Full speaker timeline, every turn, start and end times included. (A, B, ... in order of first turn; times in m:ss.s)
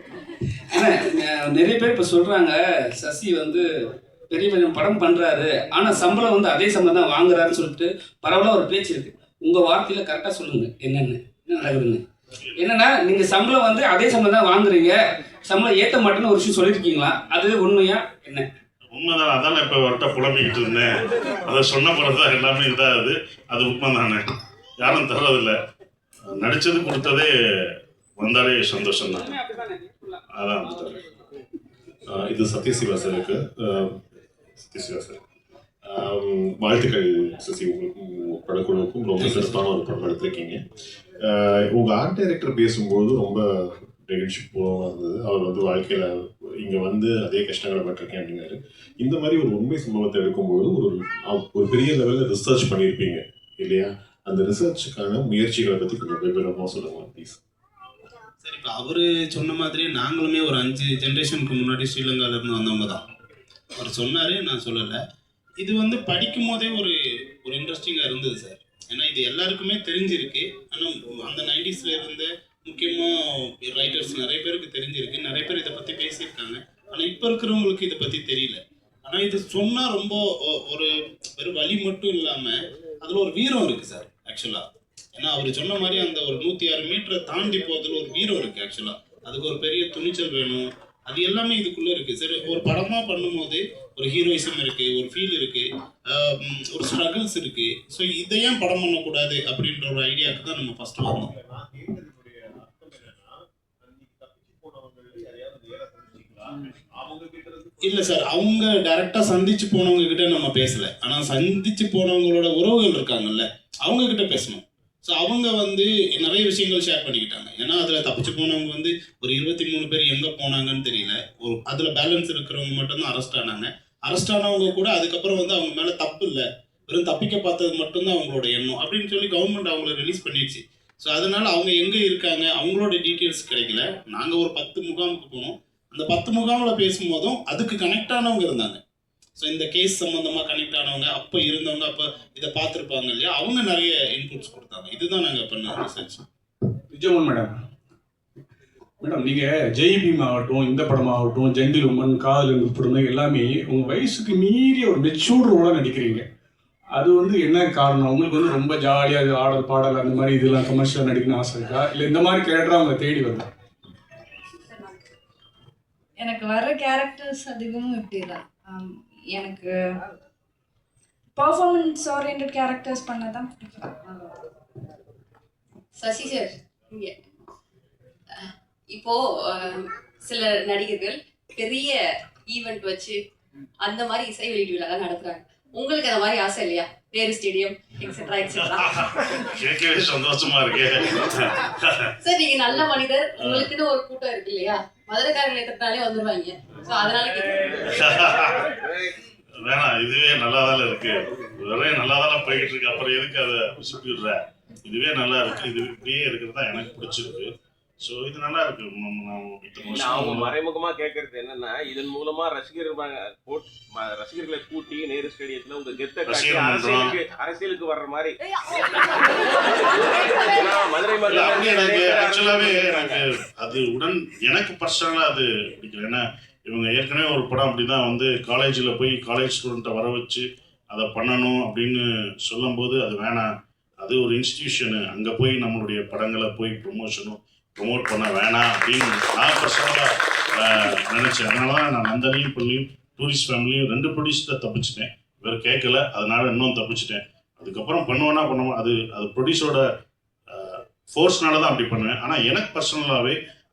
0:00.7-0:03.6 A
0:04.3-0:12.0 A
0:12.6-0:18.5 A
0:18.9-0:24.2 B
0:24.8-0:25.5 B
0:26.3-0:27.3 B
0:28.2-0:29.3 B
0:29.3-0:29.9 A
0:30.3-0:31.0 B
0:32.1-0:33.9 C
0:34.7-0:35.2 C
0:35.8-0:40.6 C
0:39.2-0:39.6 D
0:41.3-0:43.4 C
0:44.1-0:46.1 C
0:46.6-0:57.4 C
0:58.4-1:03.0 D
1:03.8-1:05.0 D
1:05.6-1:13.1 D
1:13.6-1:41.3 D
1:41.2-1:48.2 C
1:47.8-2:18.8 D
2:19.4-2:26.2 D
2:26.9-2:27.6 E
2:29.0-2:36.2 E
2:36.9-2:43.4 E
2:46.2-2:49.8 F
2:51.3-2:54.2 F
2:56.0-2:57.1 G
2:58.9-3:03.2 G
3:03.8-3:08.8 G
3:08.5-3:12.1 B
3:12.2-3:17.5 G
3:13.4-3:13.7 B
3:17.9-3:18.6 B
3:19.6-3:27.5 B
3:28.0-3:30.6 B
3:29.9-3:38.3 H
3:36.2-3:37.2 B
3:40.5-3:43.2 H
3:41.2-3:53.4 B
3:54.0-4:09.8 B
4:10.5-4:13.4 B